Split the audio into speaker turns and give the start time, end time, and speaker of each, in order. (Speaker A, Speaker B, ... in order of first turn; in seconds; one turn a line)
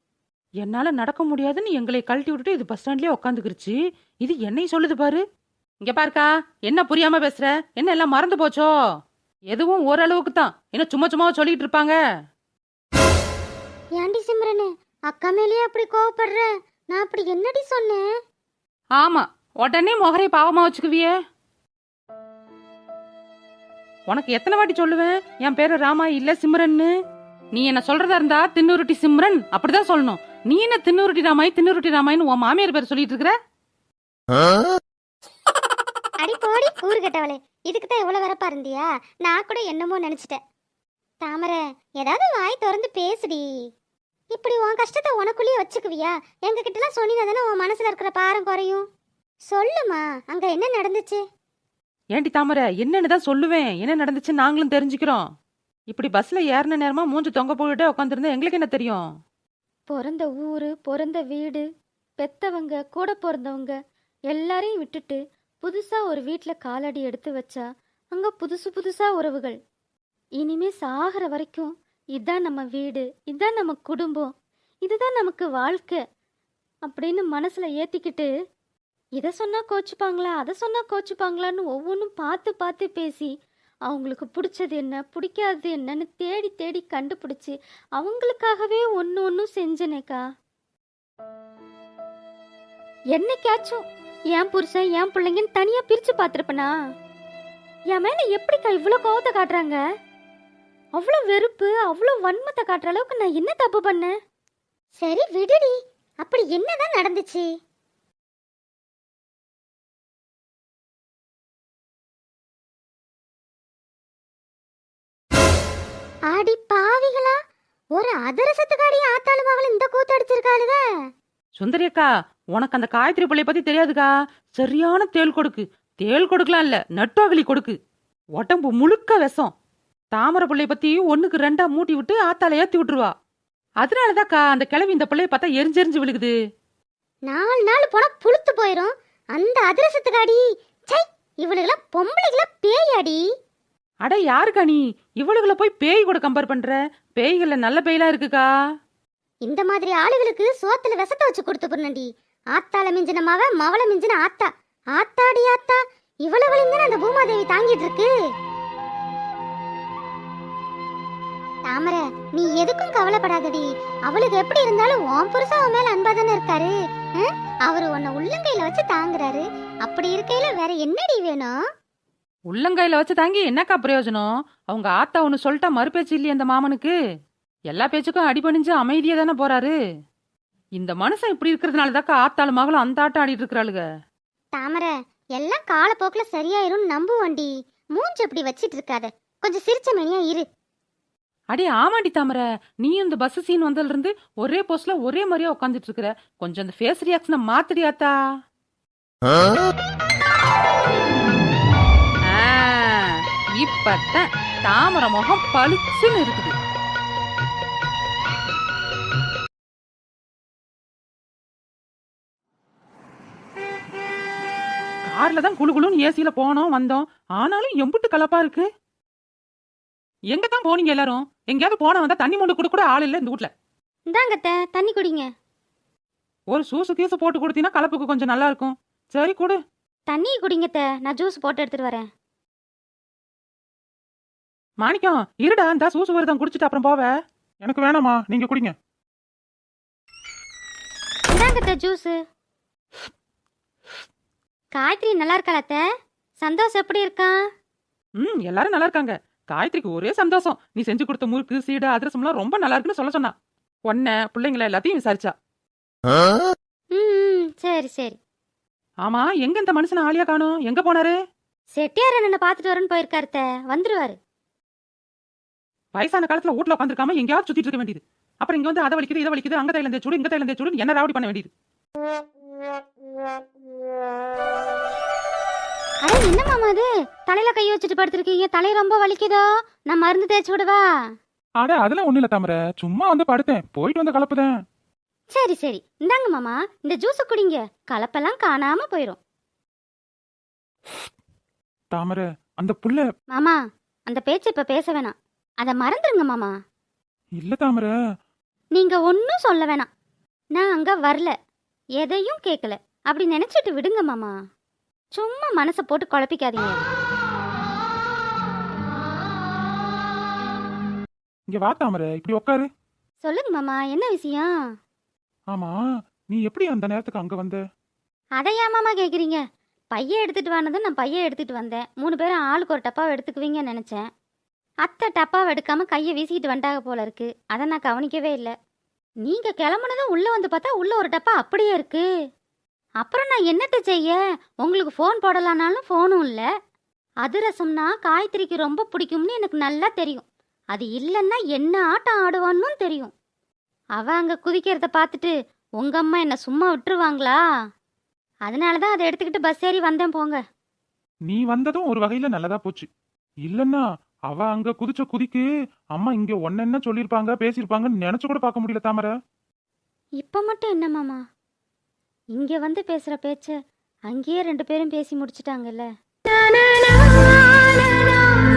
Speaker A: 0.6-5.2
Speaker A: 5.8-8.7
Speaker A: 9.5-11.9
Speaker B: 14.0-18.0
Speaker A: 19.0-21.1
Speaker A: 24.1-26.9
Speaker A: 27.5-33.3
Speaker B: 36.2-40.4
Speaker B: 41.2-43.4
Speaker B: 44.3-48.8
Speaker B: 49.5-51.2
Speaker A: 52.1-55.2
Speaker A: 55.9-59.1
Speaker C: 59.9-61.6
Speaker C: 62.2-63.8
Speaker C: 64.3-69.6
Speaker C: 70.4-74.3
Speaker C: 74.8-76.0
Speaker C: 76.8-78.3
Speaker C: 79.2-83.3
Speaker C: 83.9-90.2
Speaker C: 93.1-96.7
Speaker C: 97.9-99.8
Speaker C: 101.0-104.1
Speaker B: 105.0-107.5
Speaker B: 116.3-117.3
Speaker B: 117.9-120.8
Speaker A: 121.6-127.7
Speaker A: 128.4-129.5
Speaker A: 130.1-133.1
Speaker A: 133.8-136.3
Speaker B: 137.2-143.2
Speaker A: 144.0-148.5
Speaker B: 149.4-158.1
Speaker B: 161.7-171.5
Speaker A: 172.5-176.9
Speaker A: 177.7-179.7
Speaker A: 180.8-183.8
Speaker B: 184.5-190.4
Speaker A: 191.5-198.1
Speaker A: 202.3-206.5
Speaker A: 215.1-218.7
Speaker A: 220.3-223.5
Speaker C: 224.1-225.2
Speaker A: 226.5-229.6
Speaker C: 230.1-232.1
Speaker A: 234.8-237.1
Speaker D: 237.6-238.7
Speaker C: 241.3-242.2
Speaker C: 244.7-245.8
Speaker C: 246.4-247.4
Speaker A: 248.2-253.3
Speaker A: 253.9-255.3
Speaker C: 256.9-258.2
Speaker A: 259.0-261.1
Speaker C: 261.7-264.1
Speaker A: 265.9-271.5
Speaker C: 276.0-280.8
Speaker D: 281.6-284.5
Speaker C: 285.3-289.2
Speaker D: 291.9-293.0
Speaker C: 293.3-296.5
Speaker D: 297.4-297.9
Speaker C: 298.7-299.9
Speaker C: 300.5-301.3
Speaker C: 302.0-304.3
Speaker C: 305.1-306.8
Speaker D: 311.5-312.6
Speaker C: 313.2-314.5
Speaker D: 316.3-317.6
Speaker C: 318.4-319.4
Speaker C: 319.9-324.1
Speaker C: 324.8-328.5
Speaker C: 329.2-332.1
Speaker C: 333.0-336.4
Speaker C: 337.2-343.1
Speaker C: 343.9-347.4
Speaker C: 348.4-350.4
Speaker D: 351.3-352.9
Speaker D: 353.4-355.4
Speaker D: 356.0-359.1
Speaker C: 360.2-361.2
Speaker C: 362.3-363.6
Speaker C: 364.1-365.9